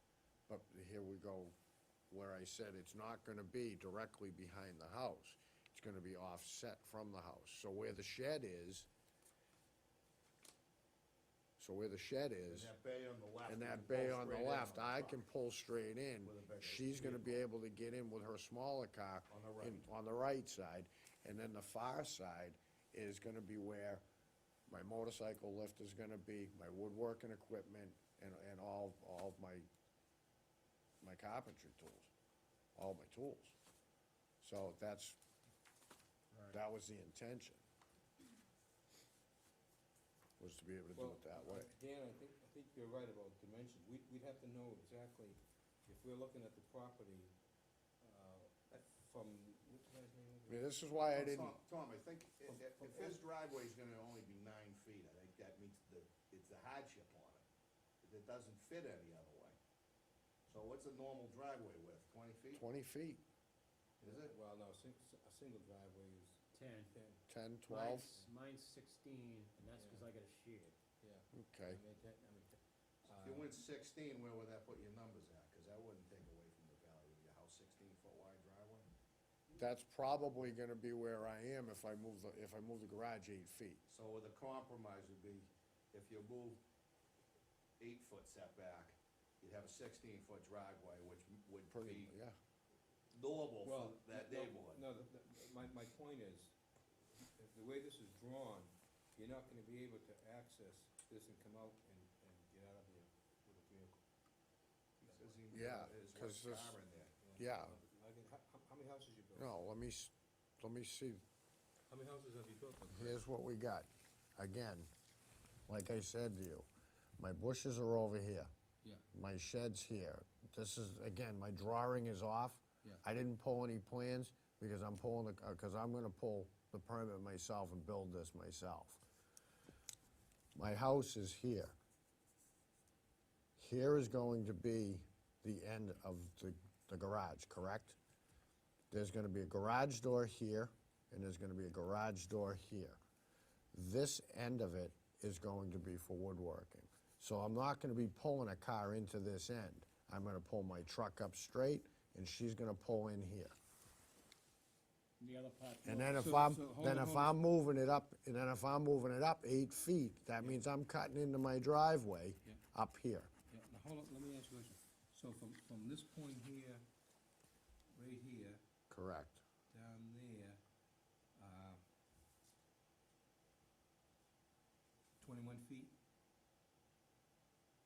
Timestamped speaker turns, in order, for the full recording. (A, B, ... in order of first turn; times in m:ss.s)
0:00.5-0:01.6 A
0:02.1-0:08.9 A
0:11.6-0:12.7 A
0:12.5-0:15.2 B
0:13.5-0:24.0 A
0:16.2-0:17.4 B
0:19.3-0:19.8 B
0:24.7-0:29.7 A
0:31.0-0:32.1 A
0:32.8-0:33.6 A
0:34.4-0:35.2 A
0:36.4-0:37.6 A
0:40.4-0:41.7 A
0:41.0-0:47.4 C
0:48.0-0:50.7 C
0:50.5-0:51.6 A
0:51.1-0:57.4 B
0:52.5-0:53.2 C
0:58.0-0:59.6 B
1:00.5-1:02.6 B
1:02.5-1:03.2 A
1:04.0-1:07.2 C
1:04.0-1:04.3 B
1:06.5-1:06.9 D
1:07.3-1:08.2 A
1:07.7-1:10.8 D
1:09.8-1:10.1 C
1:11.0-1:13.5 C
1:11.3-1:11.8 A
1:13.2-1:18.9 B
1:19.6-1:23.8 A
1:23.9-1:26.6 B
1:27.8-1:32.1 B
1:31.7-1:32.4 A
1:33.1-1:34.8 B
1:33.6-1:36.6 C
1:37.1-1:44.0 C
1:45.0-1:47.2 B
1:45.1-1:45.4 C
1:45.5-1:46.8 A
1:47.2-1:49.5 C
1:47.4-1:47.8 A
1:49.4-1:51.2 A
1:51.9-1:53.3 C
1:52.9-1:54.9 A
1:55.7-1:56.7 A
1:57.2-1:58.5 A
1:59.1-2:09.0 A
2:10.6-2:11.8 A
2:13.6-2:18.0 A
2:18.9-2:23.0 A
2:23.7-2:33.6 A
2:35.2-2:36.3 D
2:35.8-2:43.3 A
2:36.1-2:37.4 C
2:43.5-2:46.8 C
2:47.9-2:48.6 C
2:48.9-2:49.4 A
2:49.7-2:50.6 C
2:51.4-2:51.8 C
2:55.2-2:55.9 C